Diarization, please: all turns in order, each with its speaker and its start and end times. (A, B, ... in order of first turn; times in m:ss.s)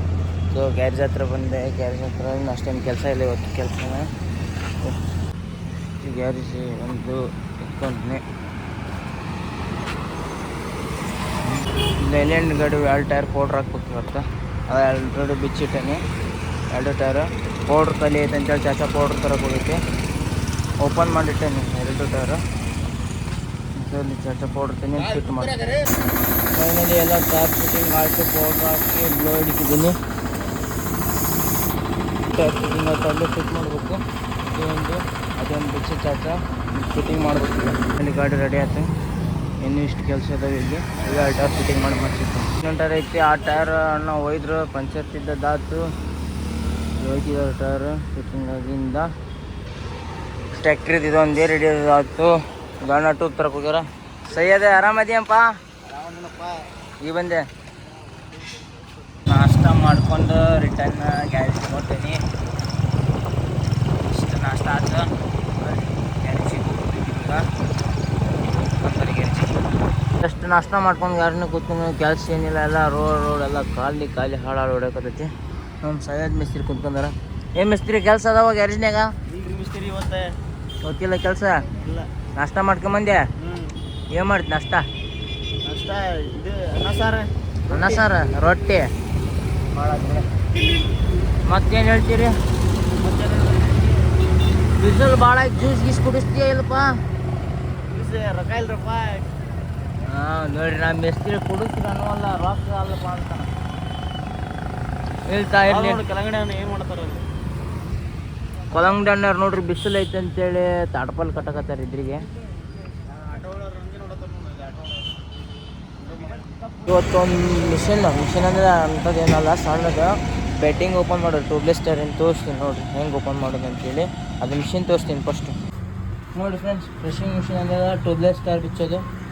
0:00.5-0:04.1 A
0:06.0-0:08.2 A
0:12.0-0:16.0 A
0:16.7-0:19.8 A
0:20.8-0:22.4 A
0:23.8-0:25.6 A
0:26.5-0:30.0 A
0:32.3-0:38.9 A
0:39.6-0:45.8 A
0:47.0-0:49.1 A
0:50.5-0:55.4 A
0:55.8-0:56.7 B
0:57.0-0:57.4 A
0:59.3-1:02.2 A
1:04.0-1:07.5 A
1:08.7-1:09.6 A
1:10.2-1:19.1 A
1:19.3-1:20.4 B
1:20.8-1:21.7 A
1:21.8-1:22.1 B
1:22.4-1:23.2 A
1:23.4-1:23.8 B
1:24.1-1:24.8 A
1:25.6-1:28.1 B
1:27.7-1:28.9 A
1:29.7-1:30.3 B
1:31.5-1:32.4 A
1:33.0-1:34.1 B
1:34.8-1:36.9 A
1:37.9-1:39.3 B
1:40.1-1:43.5 A
1:45.3-1:46.0 A
1:45.6-1:47.2 B
1:48.7-1:52.2 A
1:53.1-1:55.0 B
1:56.0-1:56.4 B
1:56.9-2:05.5 A
2:06.4-2:09.0 A